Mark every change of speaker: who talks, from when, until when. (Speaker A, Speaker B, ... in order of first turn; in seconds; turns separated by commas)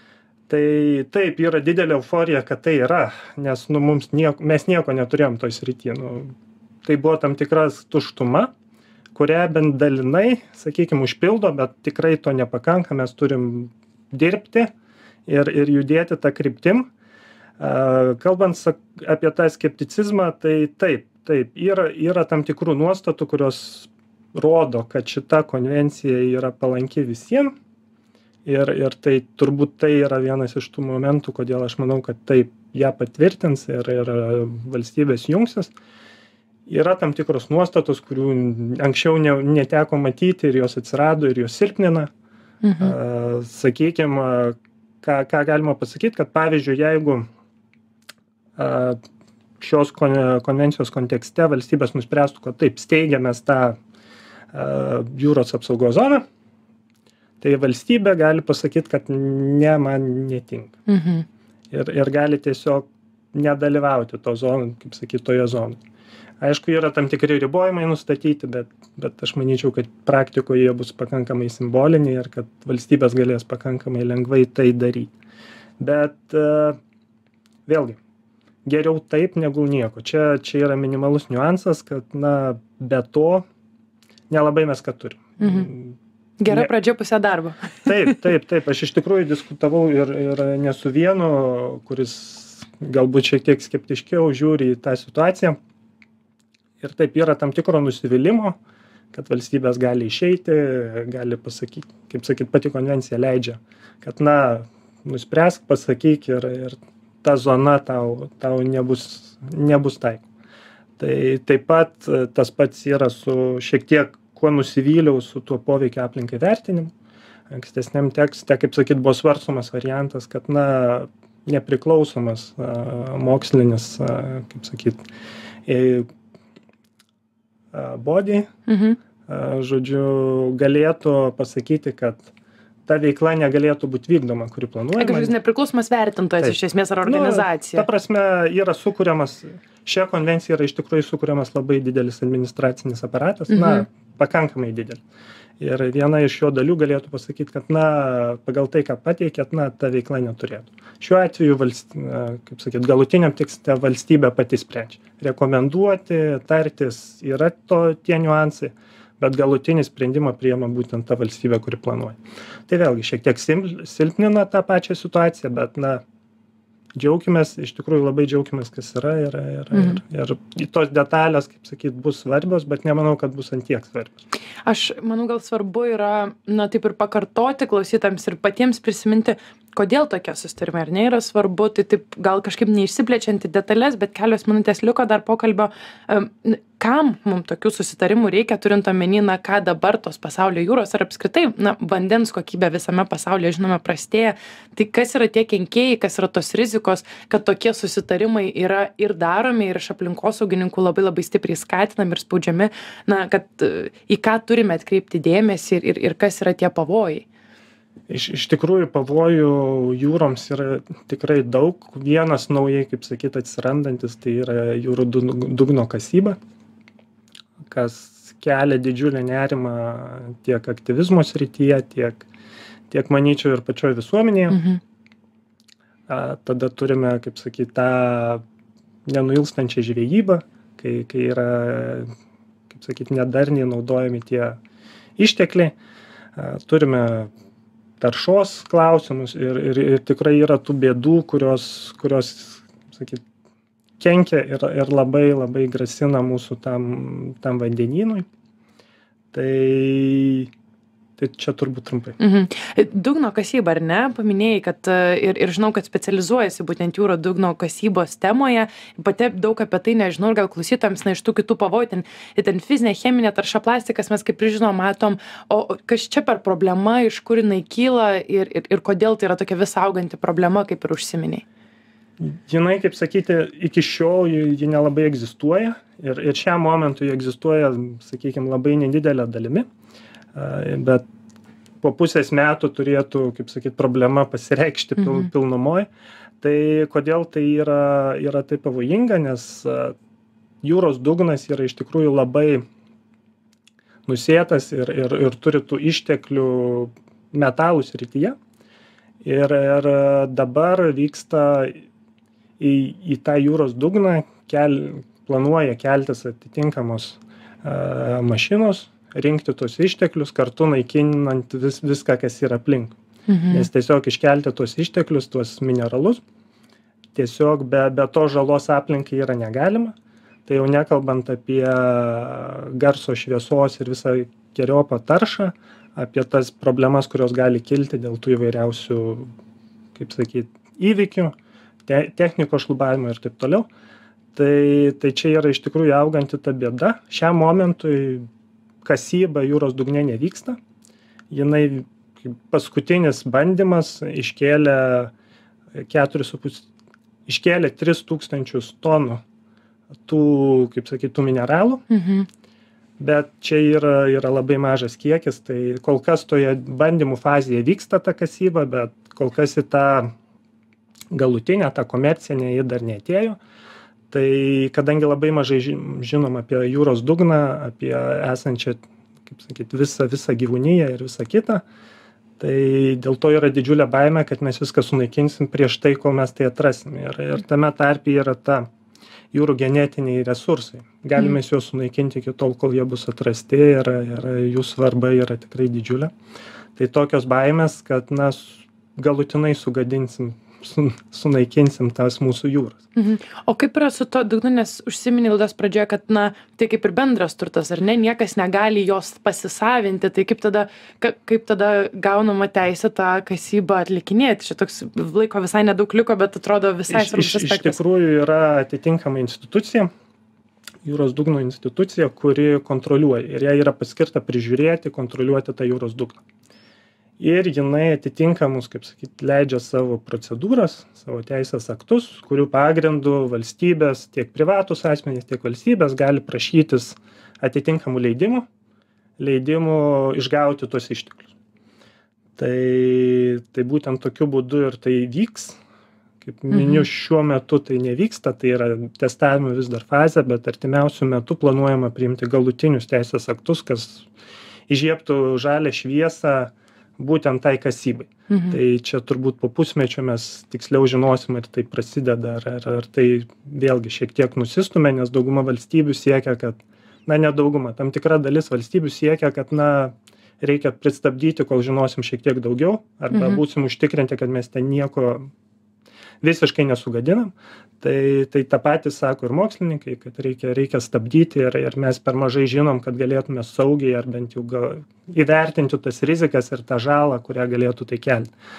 Speaker A: 0.5-6.3, Speaker A: 6.8-8.5, Speaker A: 9.1-14.7, Speaker A: 15.2-16.9, Speaker A: 17.6-27.5, Speaker A: 28.4-35.7, Speaker A: 36.7-42.1, Speaker B: 42.6-42.9, Speaker A: 42.8-47.3, Speaker A: 48.6-49.0, Speaker A: 49.6-53.8, Speaker A: 54.5-56.2, Speaker A: 57.4-60.8, Speaker B: 60.9-61.2, Speaker A: 61.7-65.8, Speaker A: 66.4-75.1, Speaker A: 75.8-76.8, Speaker A: 77.7-78.0, Speaker A: 78.6-83.4, Speaker A: 84.3-86.0, Speaker B: 85.4-85.7, Speaker B: 86.4-88.1, Speaker A: 87.8-95.6, Speaker A: 96.8-98.6, Speaker A: 99.1-110.2, Speaker A: 111.0-116.9, Speaker A: 117.5-125.0, Speaker A: 125.7-126.1, Speaker A: 127.7-128.5, Speaker B: 128.7-129.0, Speaker A: 129.2-132.3, Speaker A: 132.9-135.3, Speaker B: 135.0-137.9, Speaker A: 136.4-145.0, Speaker B: 143.5-143.8, Speaker A: 145.6-166.0, Speaker A: 166.9-174.2, Speaker B: 169.7-170.0, Speaker B: 174.7-207.2, Speaker A: 208.1-216.4, Speaker A: 217.7-222.3, Speaker A: 222.9-224.6, Speaker B: 224.5-224.8, Speaker A: 226.1-228.4, Speaker A: 229.1-232.1, Speaker A: 232.7-234.6, Speaker A: 235.2-235.7, Speaker A: 236.3-237.3, Speaker A: 238.0-243.2, Speaker A: 244.0-248.2, Speaker A: 249.3-250.5, Speaker A: 251.2-252.2, Speaker B: 252.2-271.4, Speaker A: 272.2-279.6, Speaker A: 280.3-281.0, Speaker A: 281.8-285.9, Speaker A: 286.4-289.9, Speaker A: 290.6-292.6, Speaker A: 294.1-298.4, Speaker A: 299.2-301.8, Speaker A: 302.6-313.0, Speaker B: 313.3-313.6, Speaker A: 313.5-316.2, Speaker A: 317.1-329.3, Speaker A: 329.9-333.7, Speaker A: 334.3-338.2, Speaker A: 338.8-340.6, Speaker A: 341.3-345.1, Speaker A: 345.7-346.6, Speaker A: 347.3-349.2, Speaker A: 350.1-351.8, Speaker B: 351.9-352.3, Speaker A: 353.0-360.1, Speaker A: 361.1-363.4, Speaker A: 364.1-371.6, Speaker A: 372.4-378.7, Speaker A: 379.3-386.1, Speaker A: 386.8-392.8, Speaker B: 392.9-407.8, Speaker A: 406.9-409.9, Speaker A: 410.8-416.2, Speaker A: 417.2-428.5, Speaker A: 429.2-431.3, Speaker A: 432.4-435.6, Speaker A: 436.2-444.1, Speaker B: 436.5-436.9, Speaker A: 444.7-465.3, Speaker B: 448.3-448.6, Speaker B: 463.1-463.4, Speaker A: 466.2-478.3